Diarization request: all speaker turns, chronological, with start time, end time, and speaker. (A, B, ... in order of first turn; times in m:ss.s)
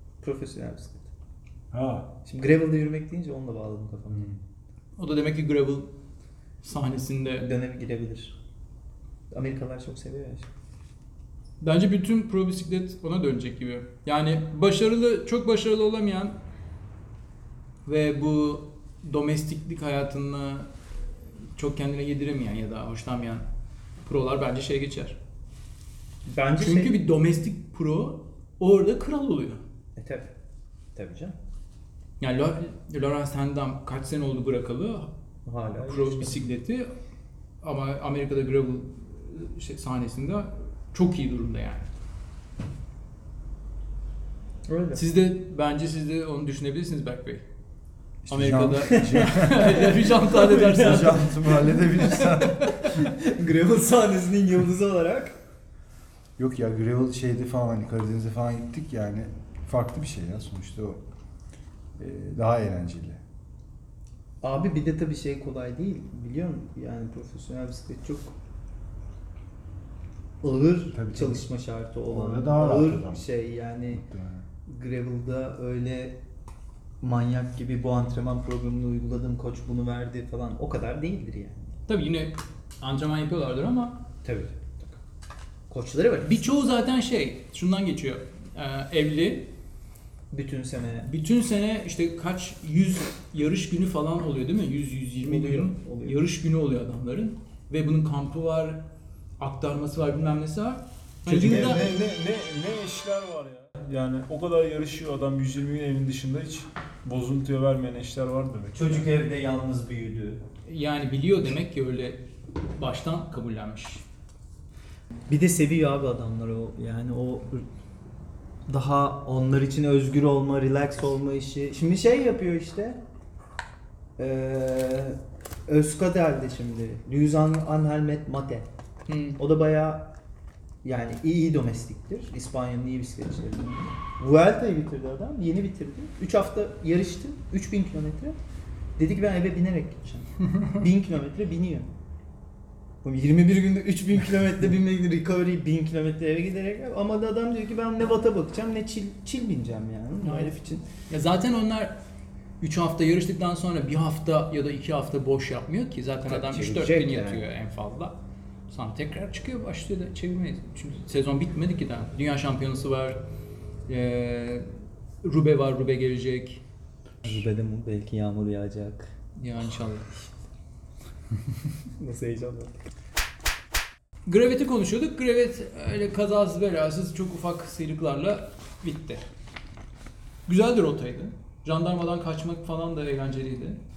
0:00.2-0:01.1 A
0:01.7-0:02.1 B
0:02.2-0:04.3 A
0:05.0-0:05.9 C
0:06.6-0:07.5 C
0:07.4-0:08.4 A
0:09.3-0:10.5 A
0:11.6-0:16.4 C
0:17.9-0:20.7 C
0:21.6-0:23.4 C
0:24.0-0:25.2 C
0:26.3-0:27.0 A
0:26.6-0:29.6 C
0:30.0-0:30.3 A
0:31.0-0:31.4 A
0:32.2-0:35.1 C
0:35.5-0:36.4 A
0:35.8-0:36.9 C
0:37.6-0:41.9 C
0:44.7-0:45.0 A
0:45.0-0:47.4 C
0:48.2-0:49.9 B
0:48.3-0:52.2 C
0:49.0-0:55.4 A
0:50.5-0:53.0 B
0:56.4-1:01.0 B
1:02.0-1:03.2 B
1:04.4-1:08.4 A
1:10.4-1:14.0 A
1:10.9-1:11.5 B
1:12.1-1:13.2 B
1:13.9-1:14.4 B
1:14.7-1:16.2 A
1:17.0-1:21.7 A
1:21.9-1:24.0 C
1:24.2-1:25.0 A
1:25.7-1:26.8 A
1:26.2-1:29.5 C
1:30.3-1:31.1 A
1:31.0-1:38.9 C
1:35.2-1:36.2 A
1:39.4-1:41.9 C
1:41.3-1:49.1 D
1:41.3-1:42.0 A
1:48.7-1:50.4 A
1:50.7-1:52.2 C
1:52.8-1:54.0 C
1:55.3-1:57.6 A
1:58.7-2:03.0 A
2:04.2-2:08.7 A
2:09.1-2:09.4 C
2:09.4-2:10.1 A
2:10.8-2:18.4 A
2:19.0-2:21.9 A
2:23.0-2:30.8 A
2:30.2-2:30.6 C
2:31.1-2:32.0 C
2:32.6-2:38.2 C
2:36.3-2:37.4 A
2:38.7-2:43.2 C
2:43.9-2:44.6 C
2:45.2-2:46.6 C
2:47.2-2:49.1 A
2:49.4-2:50.1 C
2:52.0-2:52.8 A
2:54.3-2:59.2 C
3:00.5-3:03.8 C